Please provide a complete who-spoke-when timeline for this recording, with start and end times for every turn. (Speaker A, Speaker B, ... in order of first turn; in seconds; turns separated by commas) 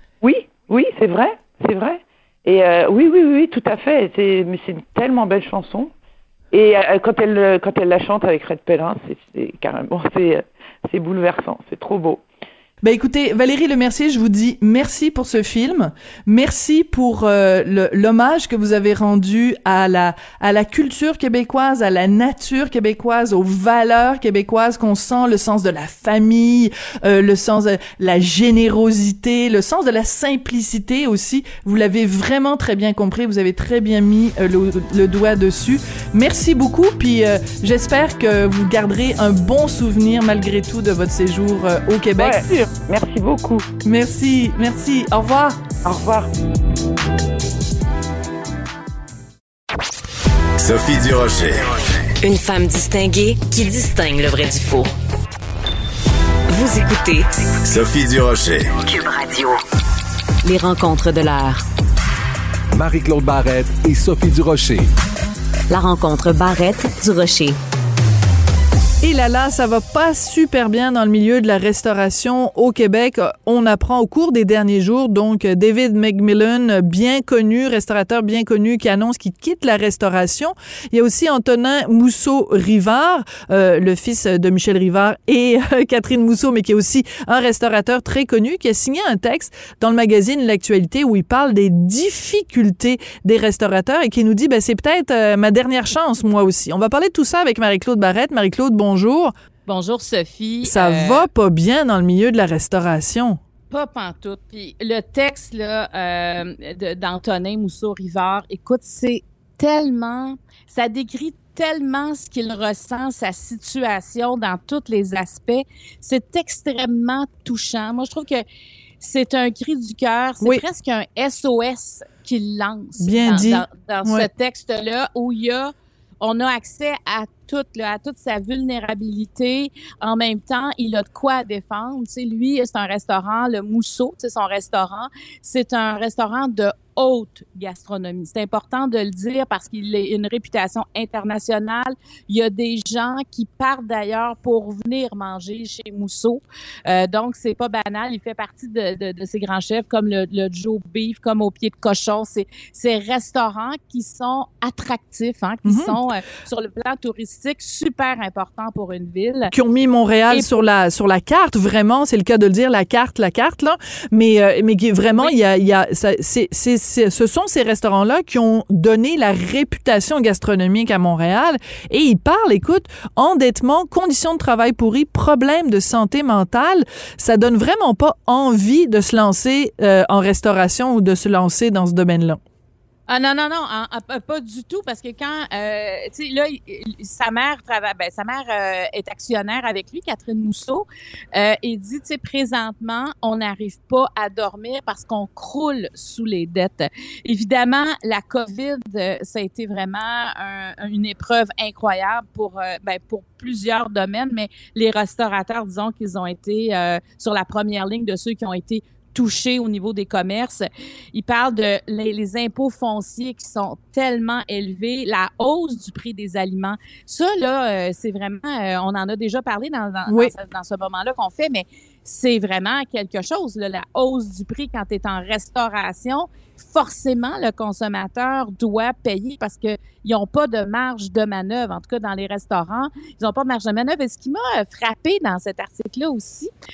Speaker A: 0.2-5.9, Speaker A: 6.5-12.2, Speaker B: 12.8-42.4, Speaker A: 42.2-43.7, Speaker B: 43.8-45.6, Speaker A: 45.8-46.3, Speaker C: 50.6-51.8, Speaker D: 52.2-54.9, Speaker D: 56.5-57.3, Speaker C: 57.6-58.8, Speaker D: 58.9-59.6, Speaker D: 60.4-61.6, Speaker E: 62.7-64.8, Speaker D: 65.7-67.6, Speaker B: 69.0-99.3, Speaker F: 99.7-101.3, Speaker B: 100.6-103.4, Speaker F: 103.7-118.5, Speaker F: 119.0-159.5, Speaker B: 123.0-124.3, Speaker B: 155.6-156.0, Speaker B: 159.5-182.4, Speaker F: 160.3-160.6, Speaker F: 183.1-236.5, Speaker B: 220.1-220.3